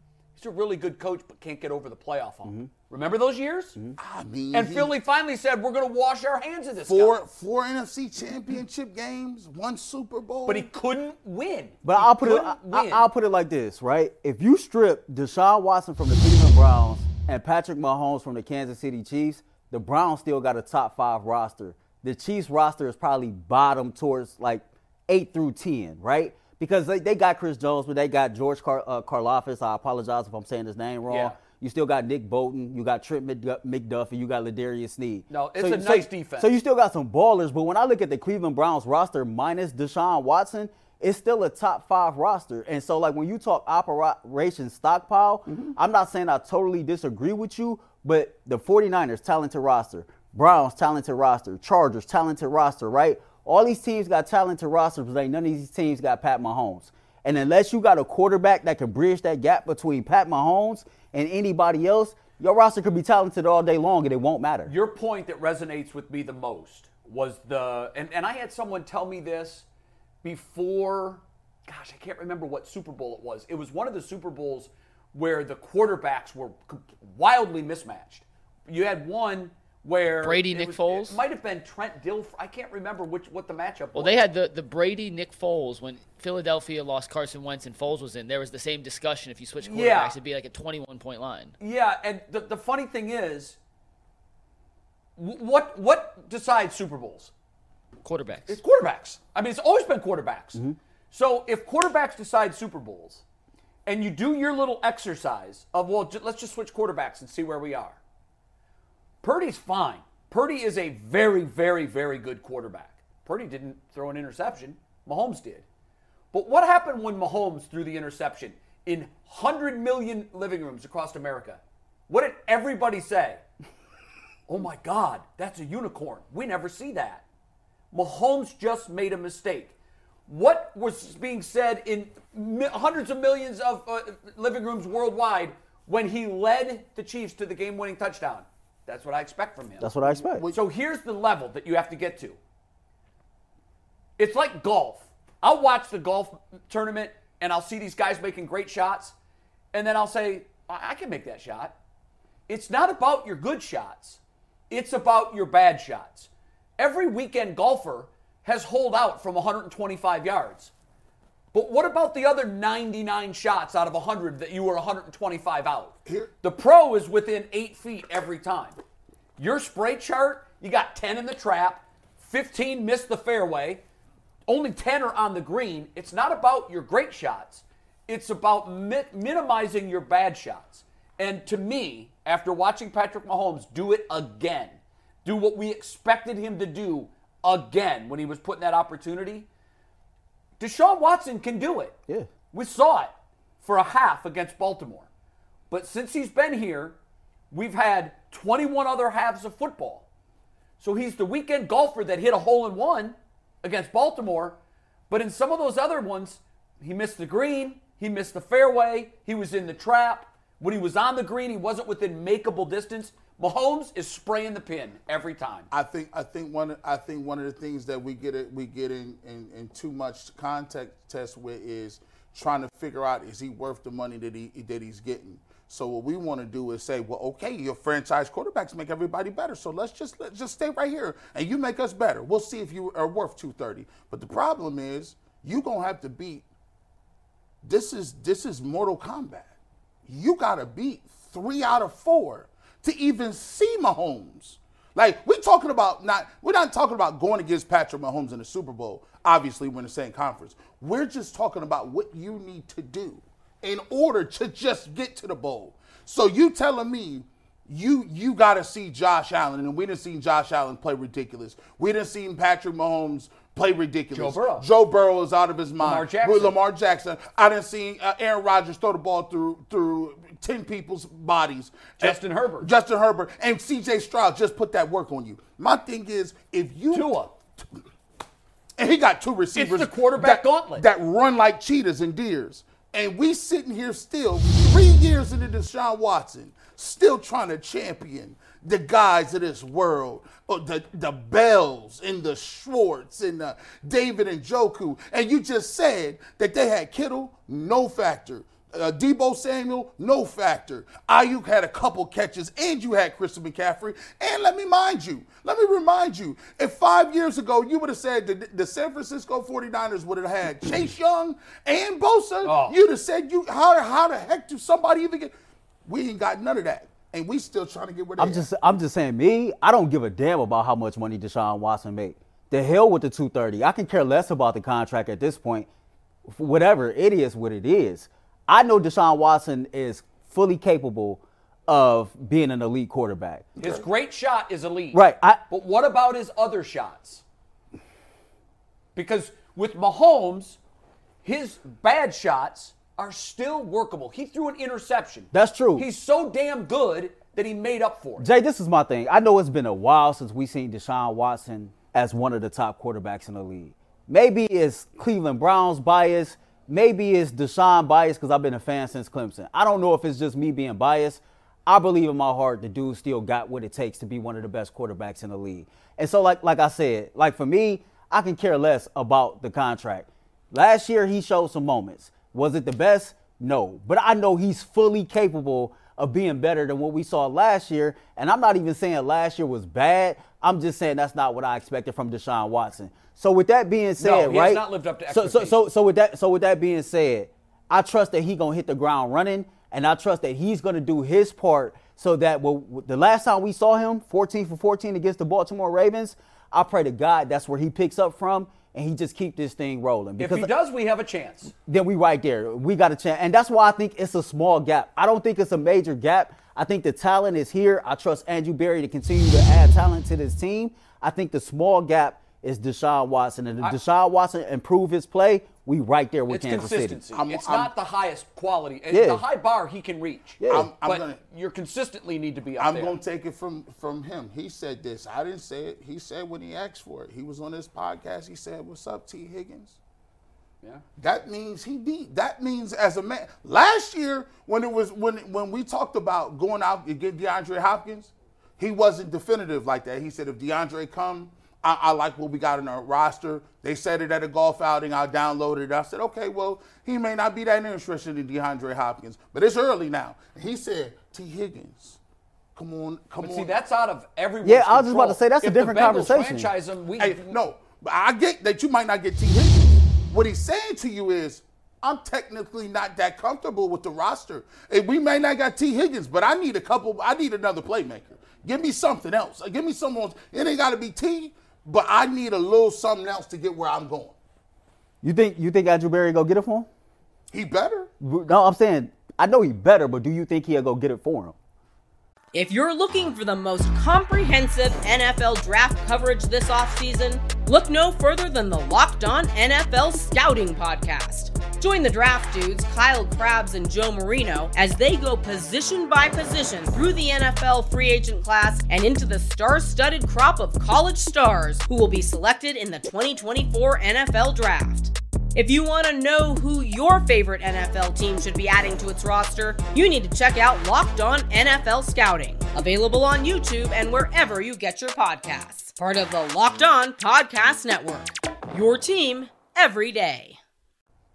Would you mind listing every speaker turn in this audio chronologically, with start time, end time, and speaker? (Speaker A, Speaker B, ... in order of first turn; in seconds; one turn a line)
Speaker A: 0.4-3.8
Speaker B: 2.4-2.7
Speaker C: 4.0-4.9
Speaker A: 4.5-7.2
Speaker C: 6.9-10.7
Speaker A: 10.4-13.1
Speaker B: 11.8-64.7
Speaker A: 31.1-31.3
Speaker A: 35.3-36.5
Speaker A: 64.7-69.6
Speaker A: 70.2-84.1
Speaker D: 80.2-81.2
Speaker D: 83.9-91.5
Speaker A: 89.6-90.2
Speaker A: 91.6-93.6
Speaker A: 95.2-97.3
Speaker D: 98.0-98.6
Speaker A: 98.5-103.2
Speaker A: 103.8-108.0
Speaker A: 109.2-115.6
Speaker A: 116.3-123.4
Speaker A: 124.5-127.2
Speaker A: 127.9-129.7
Speaker A: 130.3-139.9
Speaker B: 139.8-140.4
Speaker C: 140.0-140.6
Speaker A: 140.5-142.4
Speaker A: 144.2-149.1
Speaker A: 149.7-151.7
Speaker A: 152.5-160.7
Speaker A: 161.5-168.8
Speaker A: 169.4-173.8
Speaker A: 174.5-189.5
Speaker A: 190.6-191.9
Speaker A: 192.5-195.1
Speaker A: 195.7-196.9
Speaker A: 197.5-200.0
Speaker A: 200.8-204.6
Speaker A: 205.1-215.7
Speaker C: 215.7-236.4
Speaker C: 237.6-239.5
Speaker C: 240.1-277.4
Speaker A: 264.1-264.7
Speaker A: 265.8-266.5
Speaker A: 272.0-272.7
Speaker A: 276.9-277.3
Speaker C: 278.8-315.3
Speaker A: 279.5-280.8
Speaker A: 312.4-312.8
Speaker C: 315.9-318.4
Speaker B: 318.2-325.7
Speaker B: 326.3-333.5
Speaker C: 333.6-333.8
Speaker A: 333.6-337.2
Speaker B: 334.9-335.4
Speaker A: 338.9-340.6
Speaker A: 341.2-348.3
Speaker B: 345.3-345.9
Speaker B: 348.2-400.5
Speaker A: 384.0-385.6
Speaker A: 400.2-401.5
Speaker B: 401.6-417.0
Speaker A: 416.3-423.0
Speaker C: 417.1-417.7
Speaker B: 418.9-419.2
Speaker B: 420.4-420.7
Speaker C: 420.5-421.2
Speaker C: 422.6-429.8
Speaker C: 431.0-452.0
Speaker C: 452.5-453.6
Speaker A: 453.2-457.3
Speaker B: 454.4-456.5
Speaker C: 457.0-474.1
Speaker B: 475.0-476.7
Speaker C: 477.3-477.9
Speaker B: 478.0-481.3
Speaker E: 482.3-520.4